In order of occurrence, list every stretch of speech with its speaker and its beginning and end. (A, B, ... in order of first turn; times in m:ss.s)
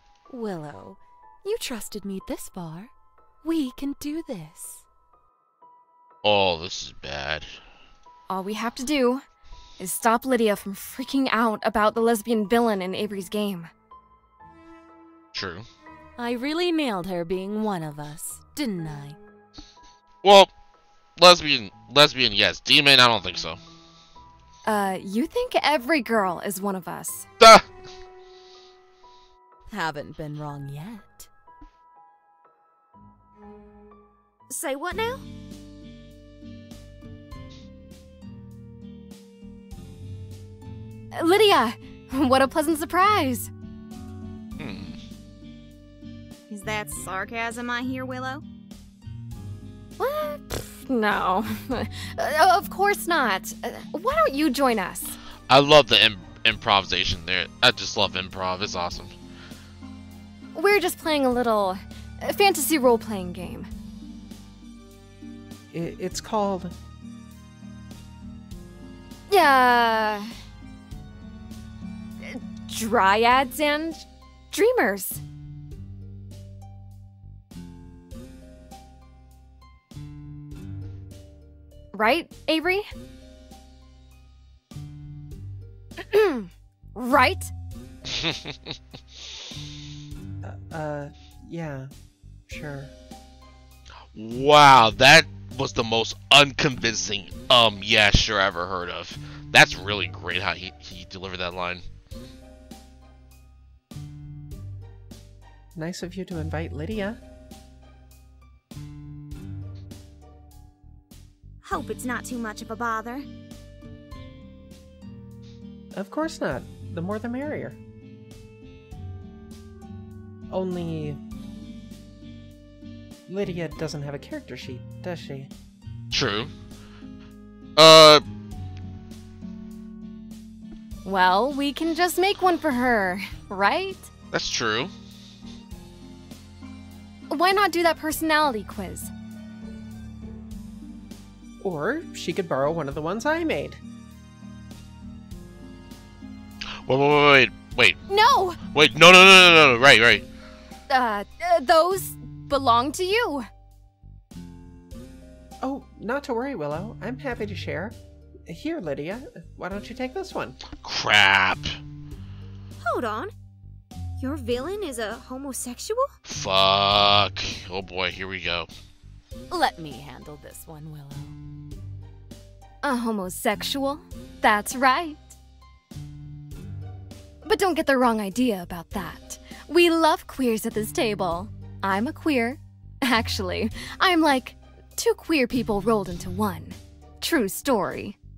0:00.3-0:02.9 A
0:03.4-0:04.8 A
0:06.2-0:07.5 B
0:08.3-0:09.2 C
0:09.8-0:13.7 C
0:15.3-0:15.6 B
0:16.2-0:19.2 A
0:20.2-0:20.5 B
0:21.2-0:23.6 B
0:24.6-0:27.3 C
0:27.4-0:27.6 B
0:29.7-0:31.3 A
0:34.5-0:35.2 D
0:41.1-0:43.5 C
0:44.6-0:45.0 B
0:46.5-0:48.4 D
0:50.0-0:55.2 C
0:55.5-0:59.1 B
1:00.5-1:03.7 C
1:05.7-1:06.7 E
1:09.3-1:10.3 C
1:12.2-1:15.2 C
1:21.9-1:22.8 C
1:26.0-1:27.5 C
1:28.1-1:28.5 B
1:30.4-1:31.9 E
1:32.5-1:32.9 E
1:34.1-1:41.8 B
1:45.7-1:47.2 E
1:51.6-1:53.2 D
1:55.9-1:57.8 E
2:00.5-2:01.2 E
2:03.3-2:05.5 E
2:06.1-2:06.5 B
2:07.8-2:08.2 B
2:11.0-2:14.1 C
2:14.3-2:14.9 B
2:17.3-2:19.1 C
2:21.6-2:23.8 E
2:26.9-2:28.0 B
2:28.1-2:28.6 C
2:28.7-2:30.2 B
2:30.9-2:33.5 C
2:35.6-2:38.0 E
2:38.5-2:40.6 E
2:40.8-2:41.8 B
2:42.8-2:43.3 D
2:44.2-2:46.1 D
2:46.3-2:48.7 B
2:49.5-2:51.4 A
2:52.8-2:55.3 C
2:57.4-3:08.2 C